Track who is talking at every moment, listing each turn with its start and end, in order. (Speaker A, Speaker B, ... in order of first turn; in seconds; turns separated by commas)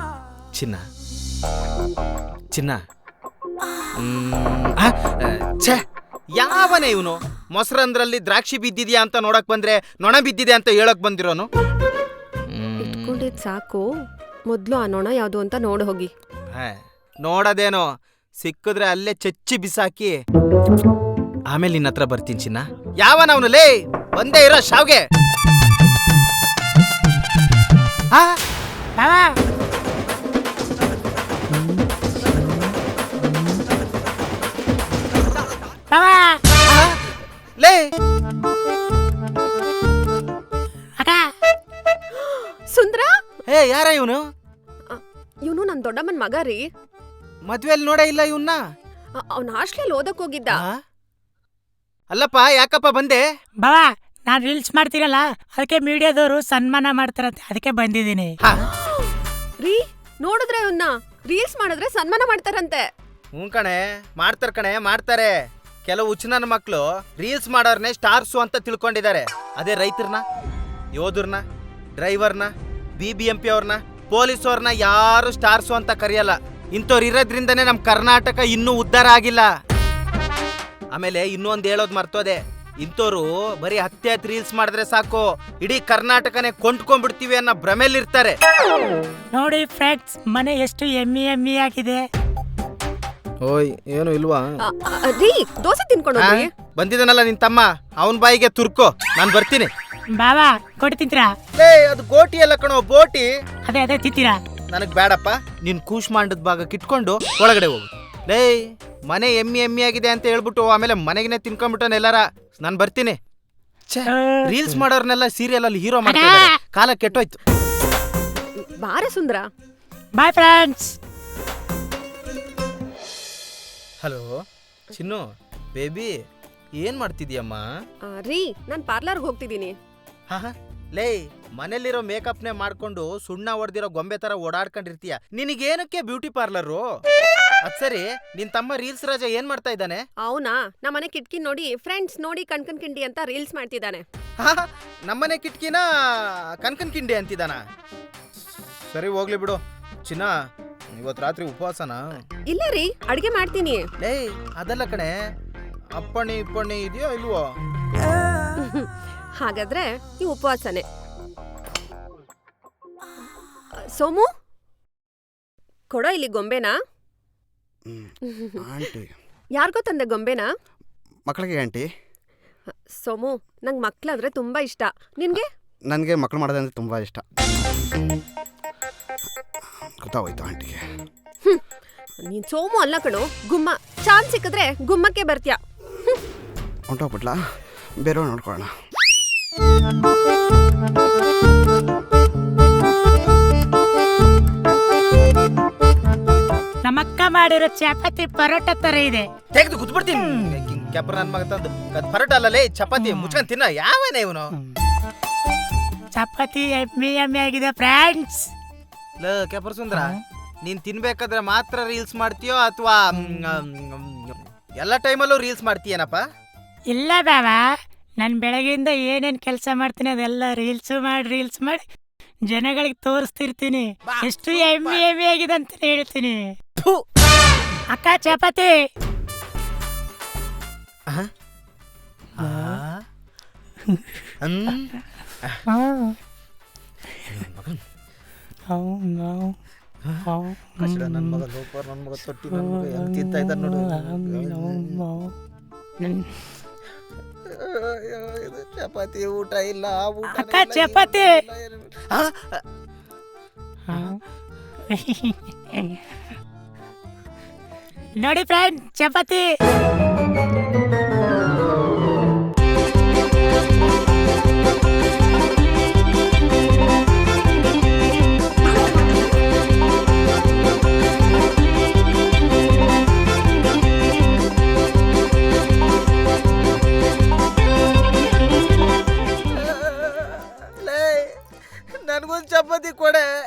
Speaker A: 0.5-0.8, Speaker A: 2.5-2.8, Speaker A: 4.0-11.5, Speaker A: 12.5-13.2, Speaker B: 12.8-13.9, Speaker B: 14.5-16.1, Speaker A: 16.5-20.2, Speaker A: 21.5-25.1, Speaker A: 28.1-28.4, Speaker C: 29.0-29.3, Speaker C: 35.9-36.4, Speaker A: 36.6-37.9, Speaker B: 42.1-43.1, Speaker A: 43.5-44.2, Speaker B: 44.9-46.6, Speaker A: 47.4-48.6, Speaker B: 49.2-50.6, Speaker A: 52.1-53.2, Speaker C: 53.6-58.3, Speaker B: 58.8-59.1, Speaker B: 59.6-62.8, Speaker A: 63.3-70.2, Speaker A: 70.9-71.4, Speaker A: 72.0-79.5, Speaker A: 80.9-88.4, Speaker C: 89.3-92.0, Speaker A: 93.4-94.6, Speaker B: 94.6-96.5, Speaker A: 96.2-99.7, Speaker C: 100.2-101.3, Speaker A: 101.5-103.3, Speaker C: 103.7-104.4, Speaker A: 104.7-113.2, Speaker A: 113.9-117.4, Speaker C: 114.0-114.5, Speaker C: 116.0-116.5, Speaker B: 118.6-119.4, Speaker C: 120.2-120.9, Speaker A: 124.0-124.4, Speaker A: 124.9-126.1, Speaker A: 126.8-127.7, Speaker B: 128.1-129.7, Speaker A: 130.3-136.8, Speaker A: 137.6-140.0, Speaker B: 140.2-144.0, Speaker A: 144.4-147.6, Speaker A: 148.9-150.3, Speaker A: 150.9-152.2, Speaker B: 152.5-153.8, Speaker A: 154.0-155.1, Speaker A: 155.9-157.4, Speaker B: 158.6-160.8, Speaker B: 163.9-164.3, Speaker B: 165.9-166.7, Speaker D: 167.8-169.1, Speaker B: 168.3-168.6, Speaker B: 169.6-170.5, Speaker D: 171.2-171.9, Speaker B: 172.9-175.4, Speaker D: 175.9-177.2, Speaker D: 180.0-180.8, Speaker B: 182.2-185.6, Speaker D: 186.9-187.4, Speaker D: 188.0-188.7, Speaker C: 196.8-199.2, Speaker A: 199.5-204.5, Speaker C: 206.1-208.5, Speaker A: 209.2-216.2, Speaker C: 216.9-217.6, Speaker C: 218.2-221.8, Speaker C: 222.5-226.5, Speaker A: 224.1-225.0, Speaker A: 226.8-227.0, Speaker C: 227.9-228.7, Speaker A: 232.4-233.0, Speaker A: 234.4-235.6, Speaker C: 235.7-236.2, Speaker A: 237.2-237.8, Speaker C: 238.7-239.6, Speaker A: 240.0-245.1, Speaker C: 240.3-240.6, Speaker C: 246.0-246.3, Speaker A: 247.5-252.6, Speaker C: 250.3-251.3, Speaker C: 253.9-254.2, Speaker C: 254.9-256.0, Speaker C: 258.2-259.4, Speaker A: 279.4-281.4, Speaker A: 281.9-283.3